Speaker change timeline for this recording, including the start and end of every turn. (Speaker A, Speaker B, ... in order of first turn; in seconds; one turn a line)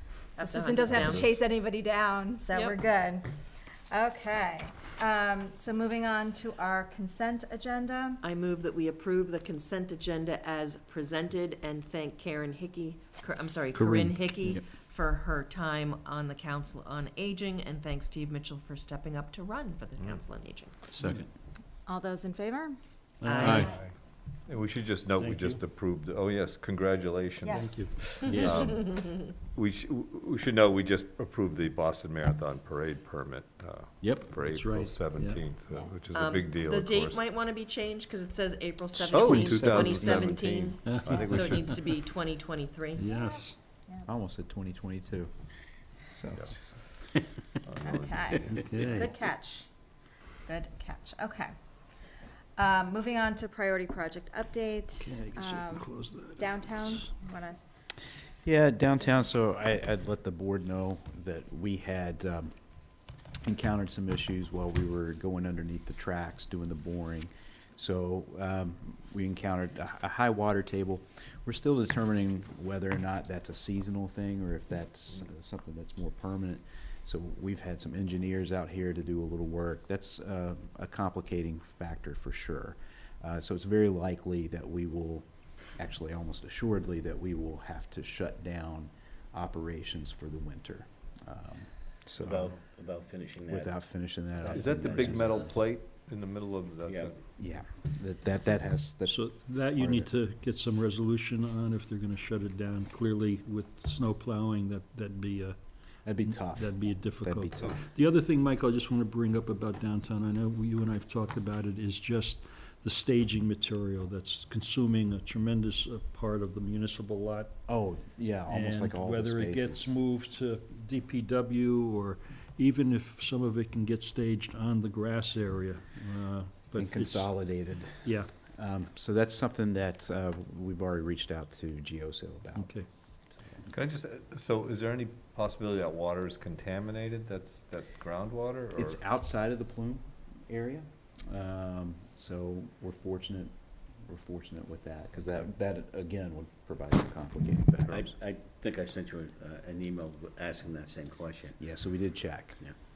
Speaker A: 0.3-3.3
Speaker B: 0.4-1.3
Speaker B: 2.5-2.8
Speaker A: 3.9-8.2
Speaker B: 8.2-20.7
Speaker C: 13.8-14.6
Speaker A: 21.9-22.8
Speaker D: 23.2-23.7
Speaker B: 23.2-23.7
Speaker C: 23.4-23.7
Speaker E: 23.4-23.8
Speaker E: 24.5-37.2
Speaker D: 25.2-25.6
Speaker A: 27.4-27.9
Speaker D: 27.5-28.5
Speaker C: 28.2-28.8
Speaker C: 34.0-34.3
Speaker D: 34.5-35.4
Speaker B: 36.1-43.1
Speaker E: 39.0-41.9
Speaker C: 39.1-40.4
Speaker D: 40.9-41.4
Speaker D: 43.0-43.5
Speaker A: 43.1-44.1
Speaker C: 44.1-45.3
Speaker C: 46.1-46.8
Speaker E: 47.6-49.1
Speaker A: 47.8-49.7
Speaker D: 48.5-49.1
Speaker A: 50.5-51.5
Speaker A: 52.6-57.6
Speaker D: 55.0-57.1
Speaker C: 58.4-62.5
Speaker C: 63.4-85.2
Speaker C: 85.8-92.5
Speaker F: 92.2-93.8
Speaker C: 93.5-95.4
Speaker F: 94.3-95.5
Speaker E: 94.5-97.2
Speaker F: 96.9-97.1
Speaker C: 97.3-100.1
Speaker D: 99.1-105.6
Speaker C: 106.0-107.8
Speaker D: 106.2-117.5
Speaker C: 117.7-119.8
Speaker D: 118.5-127.3
Speaker C: 126.8-132.8
Speaker D: 128.0-128.3
Speaker D: 132.6-132.9
Speaker E: 133.7-139.0
Speaker C: 138.8-143.5
Speaker C: 144.1-148.1
Speaker F: 147.9-151.6
Speaker C: 151.6-152.6